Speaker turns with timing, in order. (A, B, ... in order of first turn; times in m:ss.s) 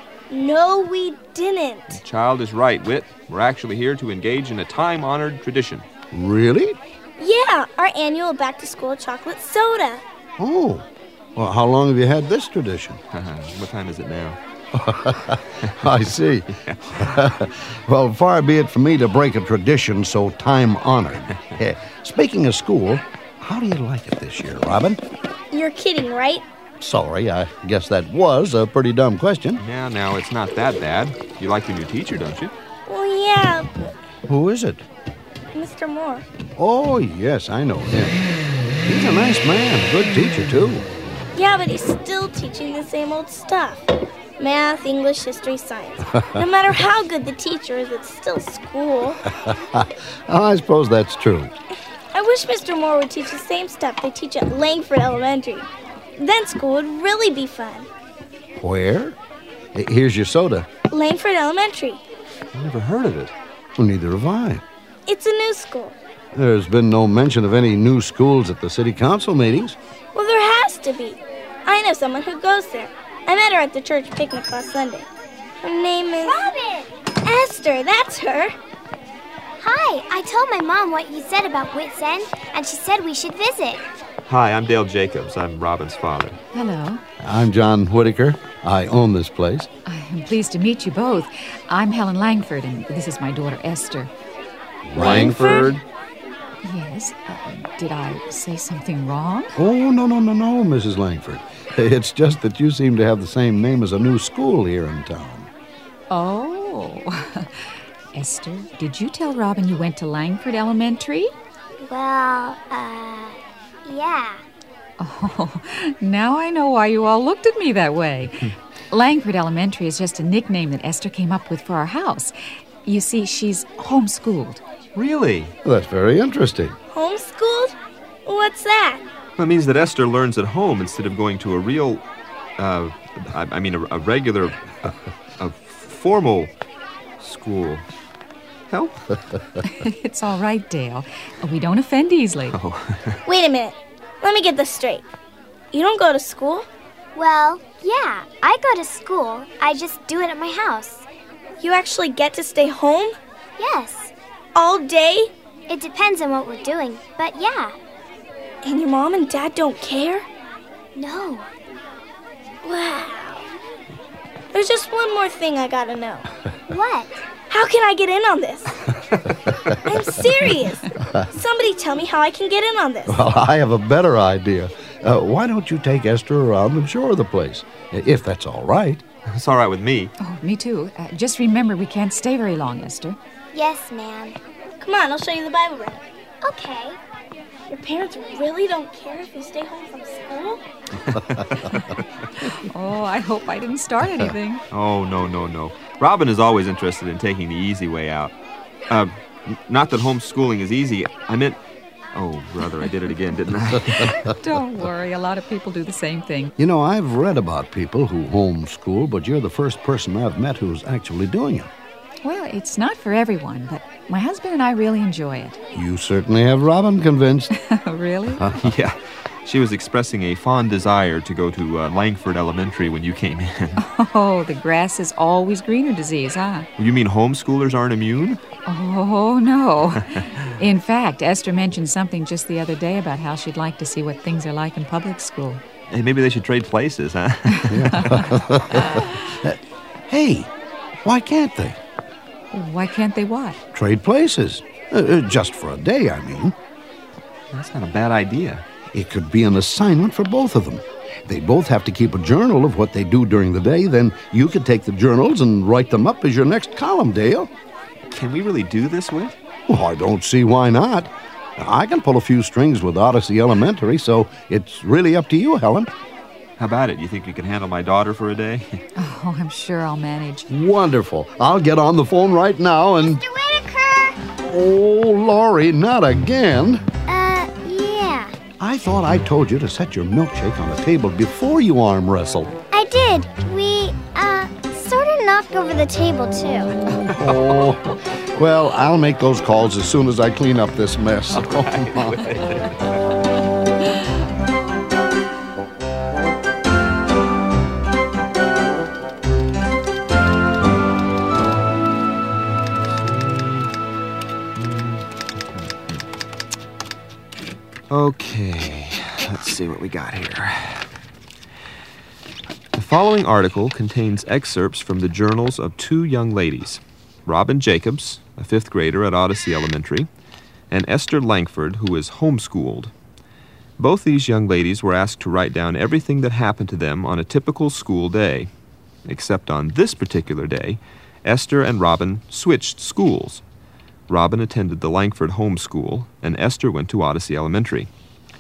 0:00.3-0:02.0 A
0:01.9-0:05.9 B
0:06.1-0:06.8 C
0:07.2-0:10.0 A
0:10.4-0:13.0 C
0:13.1-0:14.4 B
0:14.7-0:25.0 C
0:16.6-0:17.1 B
0:25.5-0:26.4 A
0:26.8-0:29.6 C
0:29.6-0:32.5 B
0:32.9-0:34.0 A
0:34.3-0:34.8 C
0:35.5-0:36.2 A
0:36.6-0:38.2 C
0:38.8-0:40.9 C
0:41.3-0:49.2 A
0:49.3-0:51.5 C
0:52.1-0:57.9 A
0:58.6-0:59.2 C
0:59.7-1:00.7 C
1:00.9-1:02.0 A
1:02.5-1:03.3 B
1:03.8-1:04.6 C
1:05.1-1:06.0 A
1:06.4-1:09.8 C
1:10.1-1:15.1 A
1:15.6-1:16.5 A
1:16.3-1:16.9 D
1:17.2-1:18.5 A
1:19.6-1:23.8 D
1:24.3-1:26.4 B
1:26.5-1:27.0 E
1:27.2-1:29.7 C
1:29.9-1:34.1 E
1:34.9-1:35.8 C
1:35.0-1:35.8 A
1:36.6-1:39.6 E
1:39.6-1:45.5 C
1:46.1-1:51.3 E
1:51.8-1:54.4 D
1:55.0-2:02.3 E
2:02.8-2:04.6 E
2:05.0-2:05.5 B
2:05.6-2:06.8 C
2:06.9-2:07.7 A
2:08.2-2:09.0 A
2:09.4-2:12.0 B
2:12.6-2:16.5 B
2:17.2-2:17.8 B
2:18.7-2:19.0 B
2:19.6-2:22.6 E
2:22.5-2:23.2 B
2:23.3-2:25.0 A
2:25.7-2:26.7 A
2:27.2-2:31.0 D
2:31.6-2:33.2 A
2:33.6-2:34.1 D
2:34.6-2:35.3 A
2:35.7-2:37.8 D
2:38.6-2:40.3 A
2:41.0-2:41.5 D
2:42.6-2:43.5 A
2:44.5-2:46.3 A
2:46.7-2:47.2 D
2:47.5-2:48.7 A
2:49.8-2:53.2 A
2:53.1-2:59.0 C
2:59.3-3:00.1 B
3:00.2-3:03.2 E
3:03.5-3:04.4 D
3:04.8-3:06.0 A
3:06.4-3:07.0 D
3:07.7-3:10.6 A
3:11.1-3:12.0 B
3:12.5-3:14.6 E
3:14.7-3:18.3 B
3:18.9-3:21.6 B
3:22.1-3:24.3 B
3:24.0-3:26.5 E
3:26.6-3:31.7 C
3:32.2-3:35.6 E
3:35.7-3:37.5 C
3:37.6-3:38.4 E
3:38.6-3:43.8 B
3:43.8-3:46.7 E
3:46.8-3:48.4 B
3:48.7-3:55.6 E
3:55.9-3:58.4 B
3:57.6-3:59.1 E
3:57.7-4:00.5 C
4:01.0-4:01.8 C
4:02.5-4:03.6 E
4:03.7-4:06.6 C
4:07.5-4:08.6 B
4:08.9-4:17.5 C
4:18.1-4:19.4 B
4:19.7-4:25.9 C
4:26.6-4:28.7 B
4:29.0-4:30.5 E
4:30.5-4:33.2 C
4:33.3-4:34.2 D
4:34.4-4:36.8 C
4:37.1-4:38.3 D
4:38.6-4:42.6 C
4:42.7-4:46.7 D
4:46.7-4:52.4 C
4:47.1-4:47.6 B
4:51.3-4:53.1 B
5:02.9-5:03.7 B
5:04.6-5:06.0 B
5:07.9-5:10.9 B
5:12.7-5:20.1 B
5:20.7-5:22.9 B
5:23.8-5:28.5 B
5:29.0-5:33.4 B
5:34.1-5:37.9 B